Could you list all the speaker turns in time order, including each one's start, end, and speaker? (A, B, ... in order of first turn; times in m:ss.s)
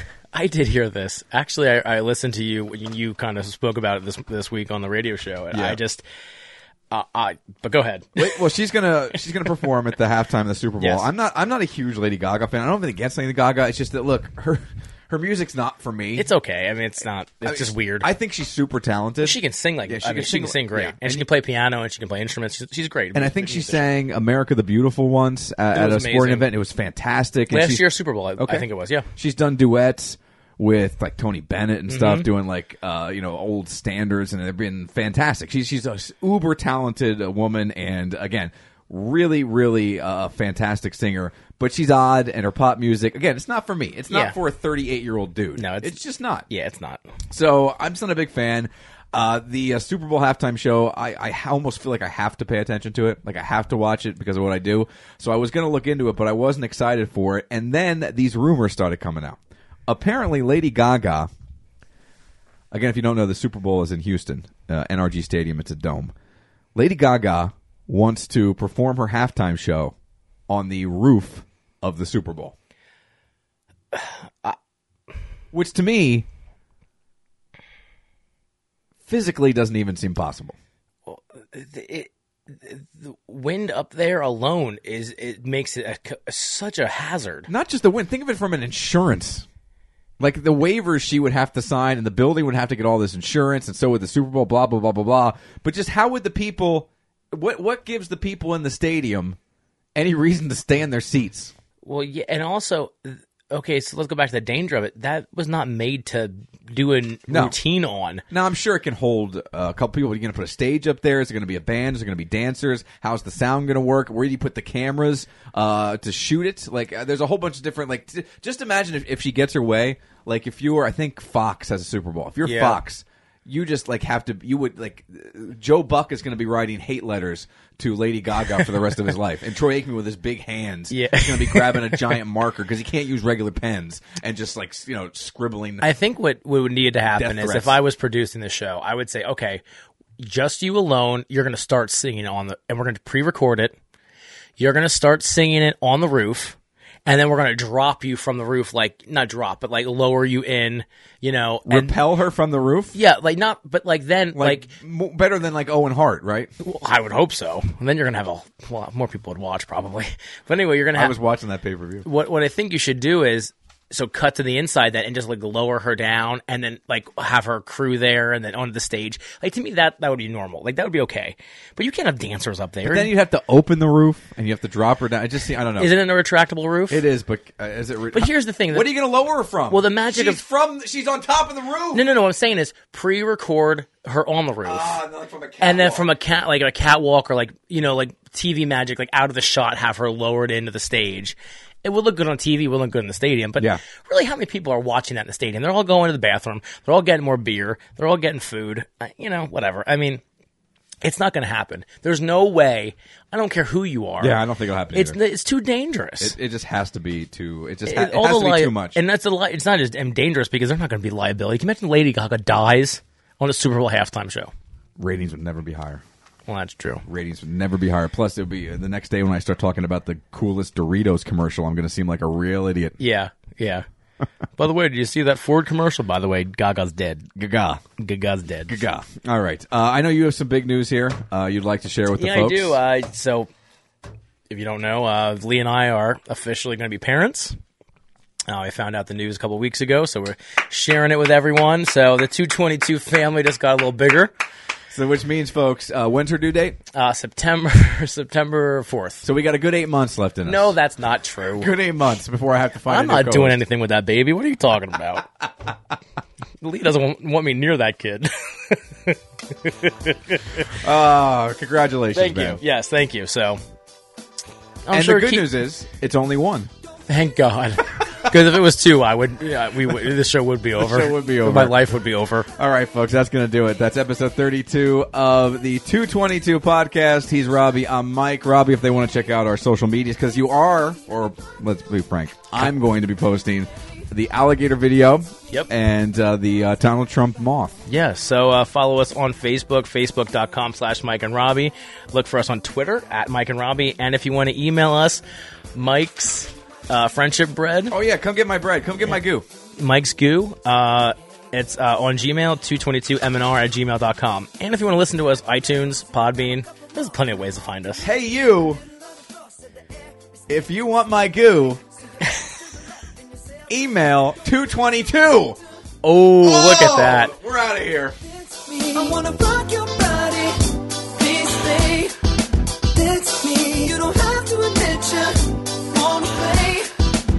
0:00.3-0:06.0 A
0:05.5-0:05.8 B
0:06.9-0:08.3 A
0:08.2-0:16.3 B
0:10.8-0:11.1 A
0:16.2-0:18.1 A
0:17.4-0:21.3 B
0:19.2-0:23.8 A
0:23.1-0:27.8 B
0:25.7-0:26.5 A
0:27.5-0:29.1 A
0:28.4-0:46.5 B
0:31.9-0:32.3 A
0:44.1-0:44.4 A
0:45.6-0:46.0 A
0:46.5-0:47.1 A
0:47.3-1:01.3 B
1:02.7-1:06.1 B
1:06.7-1:09.9 B
1:10.5-1:12.5 B
1:13.9-1:14.6 A
1:15.5-1:16.3 B
1:19.1-1:20.6 B
1:21.0-1:27.5 A
1:27.5-1:29.4 B
1:30.2-1:39.4 B
1:40.0-1:41.5 B
1:41.8-1:48.2 A
1:47.3-1:47.6 B
1:48.3-2:15.8 B
2:02.4-2:02.8 A
2:10.9-2:12.2 A
2:15.8-2:19.6 A
2:17.1-2:17.8 B
2:20.2-2:23.8 A
2:24.6-2:32.0 A
2:31.6-2:33.0 B
2:32.9-2:34.7 A
2:34.3-2:36.5 B
2:36.6-2:41.1 A
2:40.9-2:42.1 B
2:42.0-2:53.1 A
2:52.8-2:55.9 B
2:55.8-2:57.0 A
2:56.9-3:02.0 B
2:58.1-2:58.9 A
2:59.7-3:00.4 A
3:01.9-3:05.0 A
3:04.6-3:06.1 B
3:05.6-3:20.2 A
3:21.0-3:24.4 A
3:24.2-3:25.2 B
3:24.9-3:26.3 A
3:26.2-3:29.0 B
3:27.8-3:34.5 A
3:35.0-3:36.0 B
3:36.5-3:37.0 A
3:37.0-3:43.0 B
3:43.0-3:43.8 A
3:44.6-3:47.3 A
3:47.4-3:47.8 B
3:48.0-3:48.8 A
3:48.7-3:52.8 B
3:52.1-3:53.5 A
3:54.5-3:57.6 A
3:58.5-4:04.3 A
4:04.9-4:06.8 B
4:06.9-4:09.2 A
4:09.2-4:10.7 B
4:10.4-4:11.7 A
4:11.6-4:13.6 B
4:12.8-4:15.3 A
4:16.6-4:20.8 A
4:20.7-4:22.6 B
4:22.1-4:23.6 A
4:24.8-4:25.5 A
4:24.9-4:26.7 B
4:27.1-4:32.5 A
4:30.8-4:31.8 B
4:32.5-4:47.9 B
4:47.9-4:55.2 A
4:55.7-4:57.9 A
4:57.9-4:59.4 B
4:59.8-5:08.1 A
5:08.0-5:08.8 B
5:10.5-5:11.8 B
5:13.7-5:15.6 B
5:16.0-5:17.3 A
5:16.4-5:18.2 B
5:18.2-5:22.2 C
5:22.9-5:26.9 C